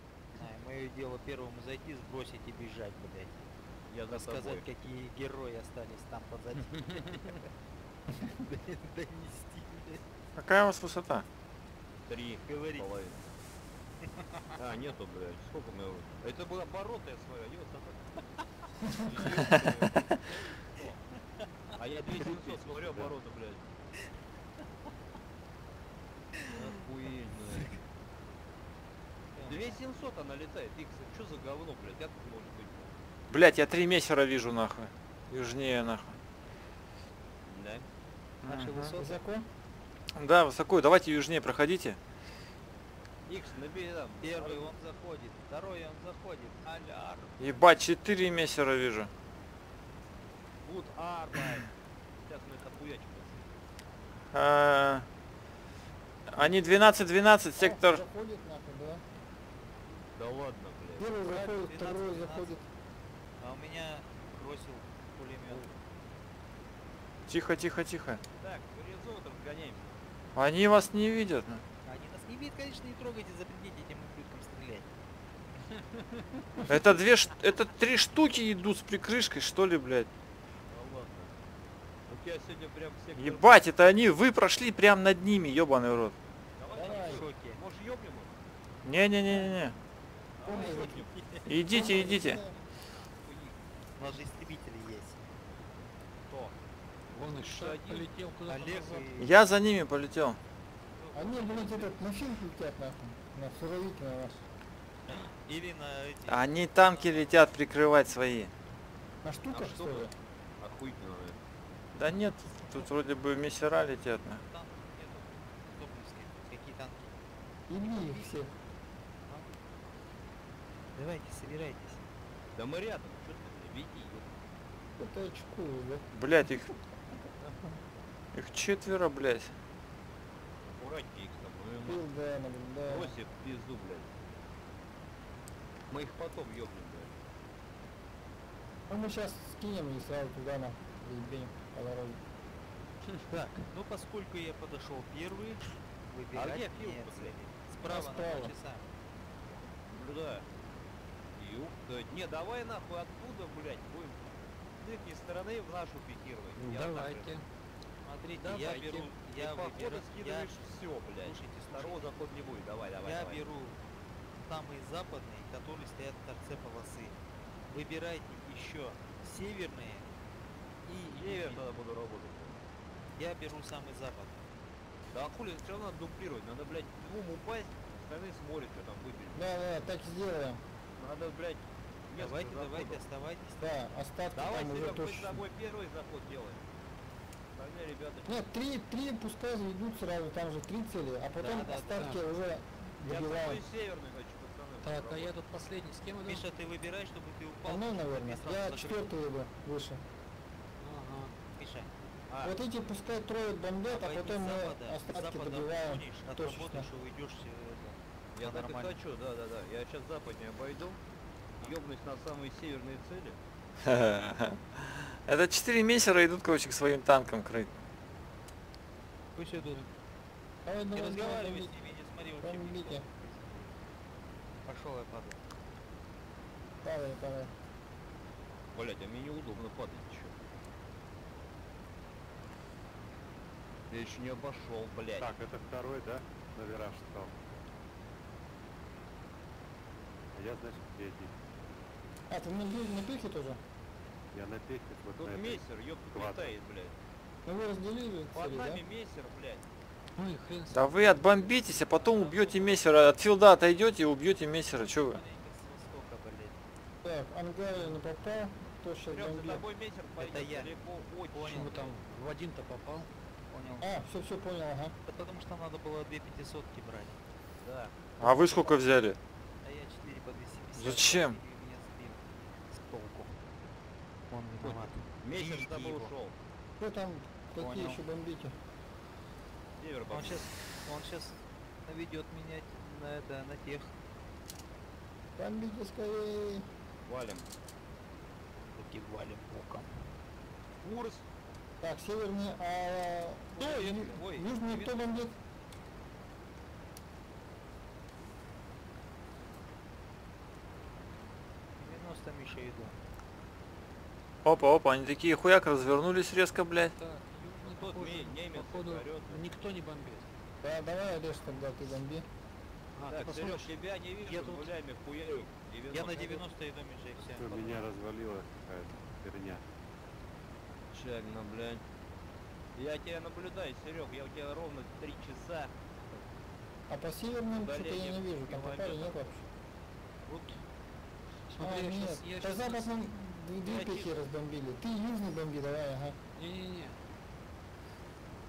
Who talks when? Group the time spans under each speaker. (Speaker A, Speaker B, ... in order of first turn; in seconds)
Speaker A: 0.3-3.5, 4.1-7.5, 8.1-10.0, 12.5-12.9, 14.2-14.6, 26.4-26.7, 29.3-29.8, 38.4-39.2, 44.2-47.4, 61.2-62.6, 63.4-65.7, 71.8-74.9, 86.8-87.6, 90.4-91.8, 94.0-95.2, 98.5-99.3, 105.0-107.5, 114.4-117.2, 117.8-118.3, 119.2-119.5, 120.9-122.0, 143.3-148.9, 158.0-160.6, 161.2-162.1, 163.0-163.8, 164.4-167.2, 167.7-170.1, 171.0-171.6, 173.2-174.5, 182.2-184.0, 191.4-192.2, 196.2-199.1, 201.6-201.9, 203.9-209.0, 219.3-219.8, 220.9-223.8, 224.6-225.4, 251.3-252.8, 255.1-256.6, 260.2-260.7, 261.3-261.9, 263.5-263.9, 265.1-267.2, 269.6-273.4, 274.3-276.1, 277.6-278.0, 280.1-283.9, 288.7-290.1, 293.9-294.3, 301.8-303.0, 315.9-317.9
Speaker B: 3.9-4.6, 6.7-7.4, 12.1-13.3, 14.6-20.9, 21.8-23.7, 26.5-27.7, 29.5-33.0, 37.5-37.9, 43.2-44.7, 50.6-53.6, 60.1-61.1, 68.4-69.9, 75.7-76.6, 80.7-81.4, 82.1-83.5, 86.6-88.5, 90.4-91.1, 91.8-93.6, 96.3-96.5, 97.1-98.1, 101.0-102.0, 109.5-111.4, 122.5-124.4, 130.8-132.0, 132.8-134.1, 135.9-137.2, 146.3-147.4, 149.8-150.5, 151.3-157.3, 158.4-163.4, 170.9-172.6, 175.1-179.5, 181.0-183.0, 184.3-186.7, 187.5-188.4, 193.0-195.3, 202.3-202.6, 208.3-211.0, 211.6-213.4, 228.7-230.3, 233.9-235.3, 245.1-246.9, 248.3-249.7, 259.1-261.9, 267.6-268.1, 274.6-276.4, 279.8-280.5, 287.0-287.4, 290.8-291.2, 293.6-295.0, 307.6-309.5, 313.0-316.4, 320.9-321.8, 322.8-326.2, 327.6-329.4, 333.6-334.2
Speaker C: 10.3-11.2, 19.4-19.8, 33.3-36.2, 38.4-38.9, 40.1-42.0, 47.4-49.1, 54.3-55.1, 56.3-58.0, 67.3-68.2, 70.3-71.6, 76.7-80.1, 83.2-86.2, 88.8-89.7, 91.5-92.4, 99.2-100.4, 106.3-108.5, 111.9-114.4, 126.1-126.7, 128.3-129.5, 213.8-217.7, 250.7-255.2, 268.2-269.2, 270.8-271.4, 304.4-306.9
Speaker D: 22.1-23.1, 235.2-237.3, 240.3-241.3, 244.3-246.5, 317.3-319.6
Speaker E: 38.9-39.5, 57.6-59.0, 61.0-62.6, 86.7-87.2, 90.4-91.0, 91.7-92.5, 101.1-104.4, 109.2-110.1, 117.7-118.5, 125.0-126.0, 131.8-133.2, 138.9-142.2, 147.8-148.5, 179.3-180.6, 183.6-185.4, 188.2-193.6, 197.6-200.0, 202.4-206.9, 220.6-221.7, 222.4-223.0, 226.8-227.5, 242.3-243.6, 247.4-248.8, 257.0-259.6, 263.8-264.9, 276.8-278.6, 285.4-286.7, 291.8-295.3, 310.6-312.3, 326.9-329.4, 331.6-336.2
Speaker F: 97.1-99.1, 156.6-157.4, 194.8-196.4, 200.8-201.3, 219.5-219.9, 250.2-251.0, 261.4-263.1, 306.9-310.3, 312.9-314.7, 330.2-330.6, 331.5-332.8, 336.3-337.0